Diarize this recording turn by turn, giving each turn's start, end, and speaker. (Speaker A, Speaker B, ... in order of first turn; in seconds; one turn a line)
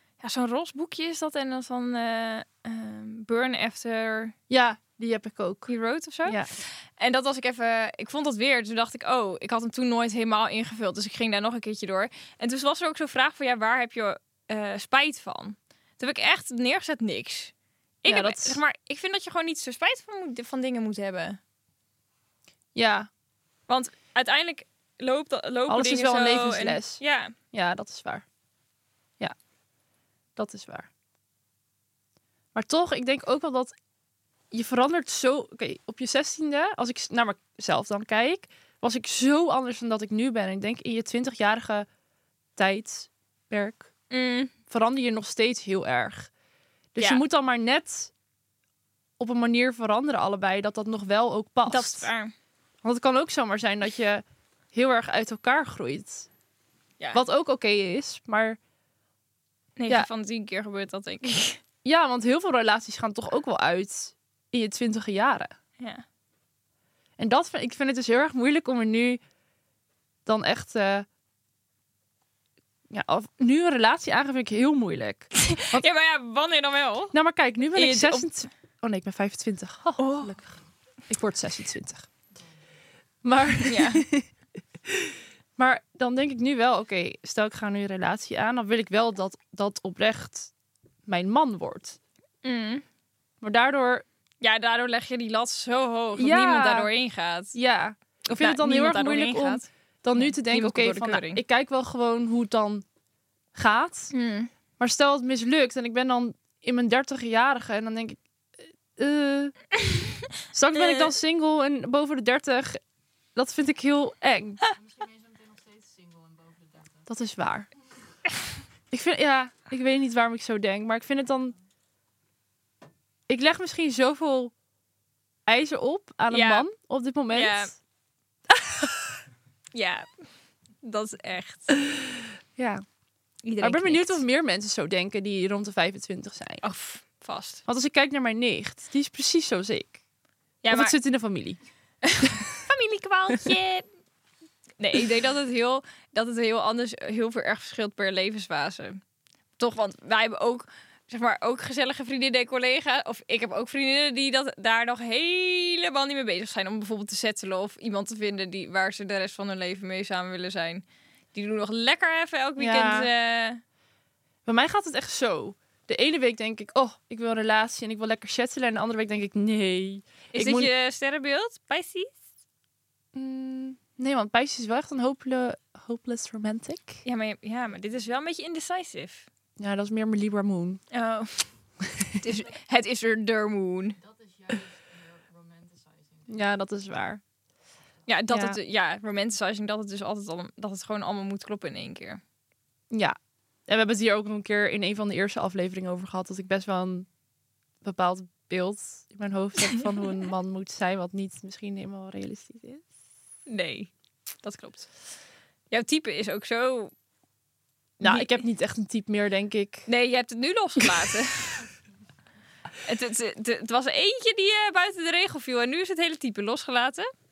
Speaker A: 0.2-4.3
Speaker B: 4.5-5.7
Speaker A: 5.7-21.4
Speaker B: 18.1-18.6
Speaker B: 22.7-23.1
Speaker A: 23.7-27.3
Speaker B: 25.7-27.0
Speaker B: 27.5-28.2
Speaker B: 30.4-30.9
Speaker B: 32.5-33.7
Speaker B: 34.5-41.9
Speaker B: 42.5-43.9
Speaker A: 44.1-44.5
Speaker B: 44.7-46.3
Speaker B: 46.9-48.1
Speaker B: 49.2-52.1
Speaker A: 51.7-52.3
Speaker B: 52.8-56.3
Speaker B: 57.1-58.6
Speaker A: 59.8-61.6
Speaker B: 61.8-65.5
Speaker B: 67.2-69.2
Speaker B: 70.2-71.1
Speaker B: 72.9-75.8
Speaker A: 75.3-77.1
Speaker B: 77.1-80.6
Speaker A: 77.7-78.2
Speaker A: 80.0-80.3
Speaker B: 81.1-82.1
Speaker B: 83.2-84.3
Speaker A: 83.7-84.0
Speaker B: 84.8-90.5
Speaker B: 91.1-92.0
Speaker A: 92.4-92.8
Speaker B: 93.4-94.0
Speaker A: 94.4-97.5
Speaker B: 96.2-96.9
Speaker B: 97.5-102.8
Speaker A: 98.4-101.4
Speaker B: 103.5-104.1
Speaker A: 104.1-104.5
Speaker B: 104.8-108.2
Speaker B: 108.9-109.5
Speaker B: 110.5-112.8
Speaker A: 110.8-111.1
Speaker B: 113.3-114.6
Speaker B: 117.0-117.7
Speaker B: 118.9-121.5
Speaker B: 123.3-124.5
Speaker B: 125.5-127.7
Speaker A: 126.3-126.7
Speaker A: 127.3-127.7
Speaker B: 128.5-129.1
Speaker A: 129.7-130.1
Speaker A: 130.8-131.8
Speaker B: 132.6-132.8
Speaker A: 133.4-134.2
Speaker B: 133.6-136.6
Speaker A: 136.6-137.6
Speaker B: 137.7-140.0
Speaker A: 140.6-140.9
Speaker B: 140.7-141.6
Speaker A: 142.0-143.8
Speaker A: 144.8-149.0
Speaker A: 149.6-163.6
Speaker B: 162.6-163.1
Speaker B: 164.4-170.7
Speaker A: 170.3-172.2
Speaker B: 173.1-177.0
Speaker A: 177.0-179.3
Speaker B: 179.6-180.8
Speaker A: 180.9-181.4
Speaker B: 181.8-182.2
Speaker A: 182.1-184.0
Speaker B: 186.2-187.2
Speaker A: 188.1-192.2
Speaker B: 188.3-188.6
Speaker B: 193.7-197.1
Speaker B: 197.8-202.8
Speaker A: 203.5-203.9
Speaker A: 204.4-204.9
Speaker A: 205.7-206.9
Speaker B: 208.0-209.9
Speaker A: 208.0-208.4
Speaker A: 209.9-211.7
Speaker A: 212.8-217.1